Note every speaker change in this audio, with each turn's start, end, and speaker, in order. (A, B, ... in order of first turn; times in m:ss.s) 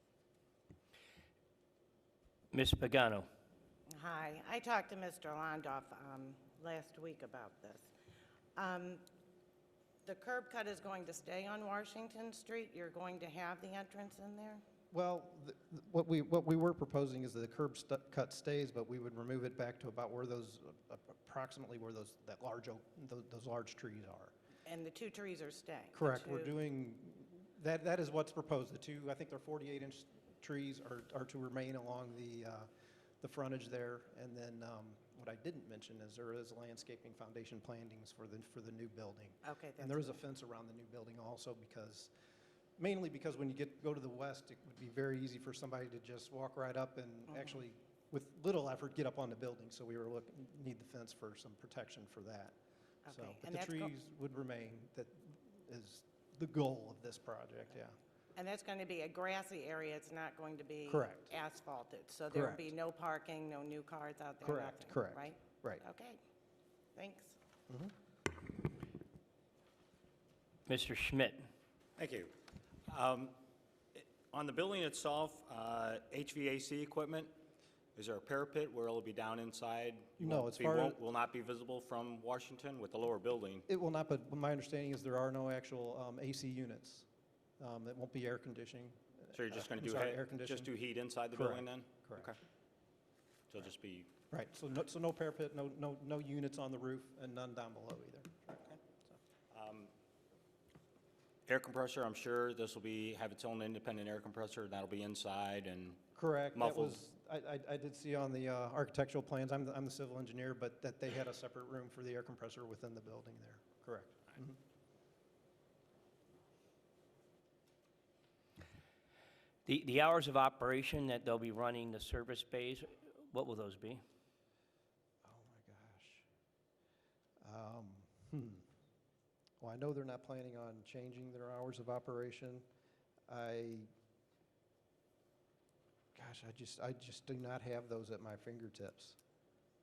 0:02.5-0:03.2 A
0:03.9-0:07.9 B
0:08.6-0:09.0 B
0:10.0-0:14.6 B
0:14.9-0:24.3 C
0:24.7-0:26.5 B
0:25.9-0:32.7 C
0:33.2-0:42.1 C
0:39.4-0:40.2 B
0:42.8-0:52.6 C
0:53.0-0:53.9 B
0:53.1-0:58.0 C
0:58.4-1:06.2 B
1:00.9-1:01.3 C
1:02.3-1:02.6 C
1:04.4-1:05.8 C
1:06.9-1:07.4 B
1:10.7-1:11.4 A
1:12.0-1:12.3 D
1:12.9-1:13.4 D
1:14.0-1:17.3 D
1:17.9-1:23.7 D
1:20.2-1:21.0 C
1:23.7-1:27.0 C
1:27.6-1:30.7 C
1:29.3-1:32.4 D
1:31.3-1:32.4 C
1:33.5-1:34.1 D
1:34.3-1:39.1 C
1:39.5-1:39.9 D
1:41.5-1:46.0 D
1:46.1-1:54.6 C
1:46.6-1:47.0 D
1:59.7-2:04.0 A
2:05.2-2:06.2 C
2:07.4-2:08.6 C
2:09.6-2:12.6 C
2:13.3-2:13.9 C
2:16.2-2:19.2 C